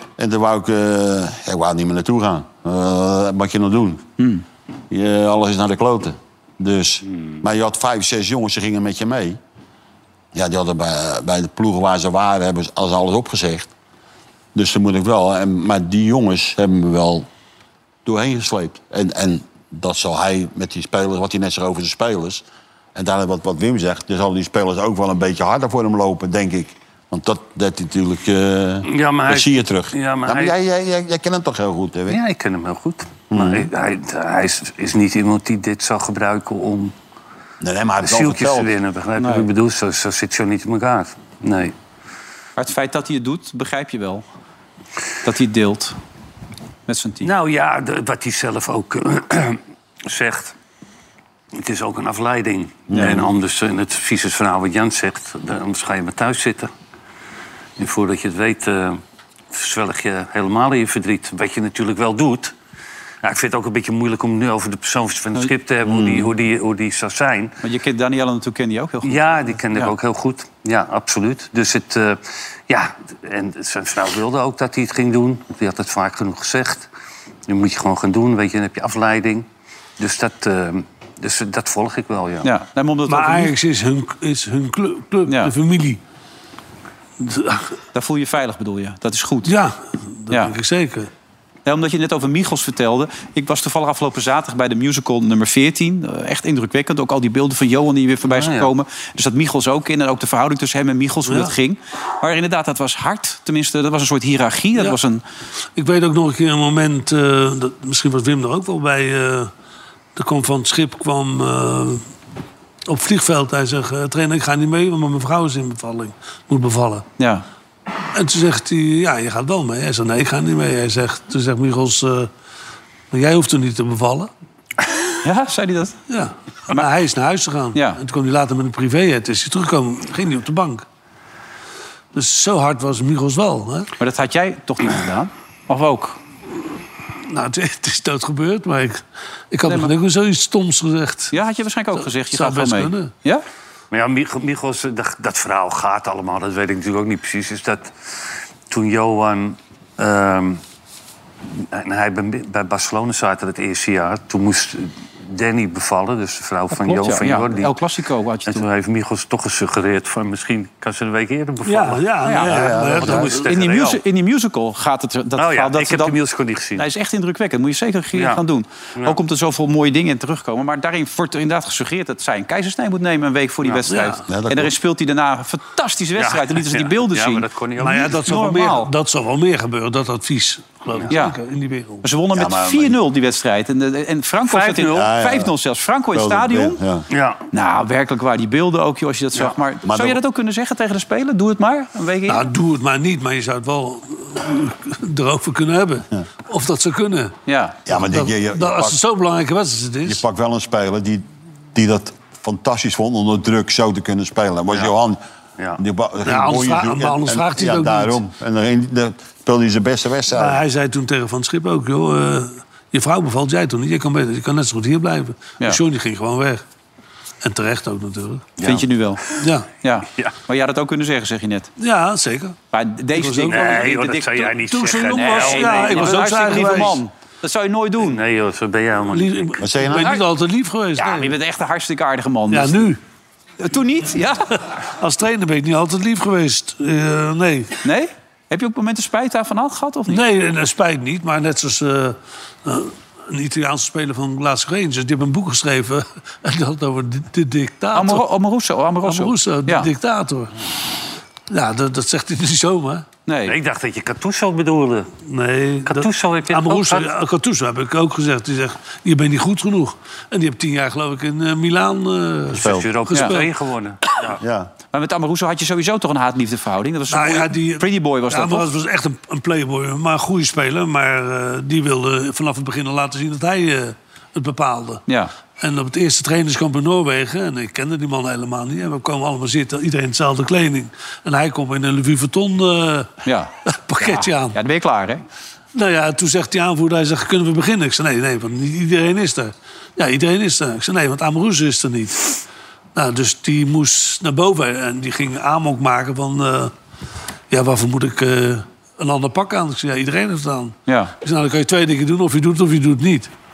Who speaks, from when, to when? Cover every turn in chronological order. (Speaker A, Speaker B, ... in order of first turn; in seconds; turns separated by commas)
Speaker A: 0.2-4.0, Speaker B: 4.2-4.4, Speaker A: 4.9-9.4, Speaker A: 10.3-13.7, Speaker A: 14.5-17.3, Speaker A: 18.0-32.2, Speaker C: 28.9-30.5, Speaker C: 32.1-36.9, Speaker A: 33.3-33.7, Speaker A: 37.6-38.7, Speaker C: 38.0-41.7, Speaker B: 39.2-39.5, Speaker B: 42.6-44.2, Speaker B: 45.2-46.0, Speaker B: 46.9-47.3, Speaker C: 47.2-50.5, Speaker C: 51.5-56.7, Speaker A: 52.9-53.2, Speaker C: 57.8-59.0, Speaker C: 59.5-62.5, Speaker C: 63.2-67.5, Speaker A: 65.8-66.3, Speaker B: 67.6-69.9, Speaker C: 69.0-76.9, Speaker C: 77.5-79.5, Speaker C: 80.0-82.5, Speaker B: 82.4-83.5, Speaker D: 83.1-86.0, Speaker B: 85.2-85.5, Speaker D: 87.2-87.7, Speaker B: 87.9-89.5, Speaker D: 89.4-91.1, Speaker B: 91.6-105.2, Speaker C: 98.3-98.7, Speaker D: 101.3-101.5, Speaker D: 105.8-109.5, Speaker D: 110.2-112.0, Speaker D: 112.9-117.0, Speaker B: 117.2-117.4, Speaker D: 118.1-122.3, Speaker D: 123.1-124.3, Speaker B: 125.2-126.0, Speaker D: 126.1-130.8, Speaker B: 127.7-128.0, Speaker D: 132.1-133.9, Speaker B: 134.0-136.2, Speaker D: 137.2-141.3, Speaker B: 139.6-139.9, Speaker B: 141.3-143.4, Speaker D: 142.0-143.1, Speaker C: 143.9-147.9, Speaker C: 148.7-150.6, Speaker C: 151.7-157.7, Speaker B: 156.7-158.6, Speaker C: 158.5-164.0, Speaker D: 161.7-163.4, Speaker B: 162.2-166.2, Speaker A: 162.5-163.2, Speaker C: 165.3-166.8, Speaker B: 166.8-177.4, Speaker C: 168.1-168.4, Speaker D: 173.9-174.2, Speaker A: 174.3-174.7, Speaker C: 176.2-178.4, Speaker D: 177.8-182.0, Speaker B: 178.2-178.9, Speaker B: 181.1-181.4, Speaker B: 182.0-186.8, Speaker A: 182.3-183.0, Speaker C: 184.4-185.1, Speaker A: 184.9-185.5, Speaker A: 186.1-187.1, Speaker C: 187.1-187.4, Speaker B: 187.5-192.5, Speaker A: 189.8-190.2, Speaker D: 192.3-197.3, Speaker B: 197.4-197.8, Speaker A: 197.8-199.0, Speaker D: 197.9-200.2, Speaker A: 200.0-205.2, Speaker A: 205.8-210.6, Speaker D: 206.2-208.2, Speaker D: 210.3-216.6, Speaker D: 217.4-218.5, Speaker B: 218.6-219.2, Speaker D: 219.4-219.7, Speaker B: 219.8-221.7, Speaker D: 221.8-222.6, Speaker B: 222.7-228.2, Speaker D: 223.2-223.9, Speaker C: 223.4-226.8, Speaker D: 224.7-227.0, Speaker C: 228.0-229.6, Speaker D: 229.1-231.3, Speaker A: 229.6-230.2, Speaker B: 229.9-230.2, Speaker B: 231.0-232.9, Speaker D: 232.5-233.0, Speaker B: 233.6-234.5, Speaker D: 235.0-237.7, Speaker B: 237.8-240.2, Speaker D: 240.1-248.2, Speaker B: 247.9-249.9, Speaker D: 249.0-250.5, Speaker D: 251.5-253.0, Speaker B: 253.3-253.5, Speaker C: 253.4-255.1, Speaker D: 255.2-263.5, Speaker C: 255.8-257.1, Speaker A: 262.5-262.9, Speaker C: 262.6-264.4, Speaker A: 264.4-264.7, Speaker B: 264.9-268.7, Speaker D: 267.1-275.0, Speaker D: 275.6-283.1, Speaker B: 283.2-285.2, Speaker D: 283.7-284.6, Speaker D: 285.7-292.4, Speaker D: 292.9-296.7, Speaker D: 297.5-303.3, Speaker B: 300.9-301.1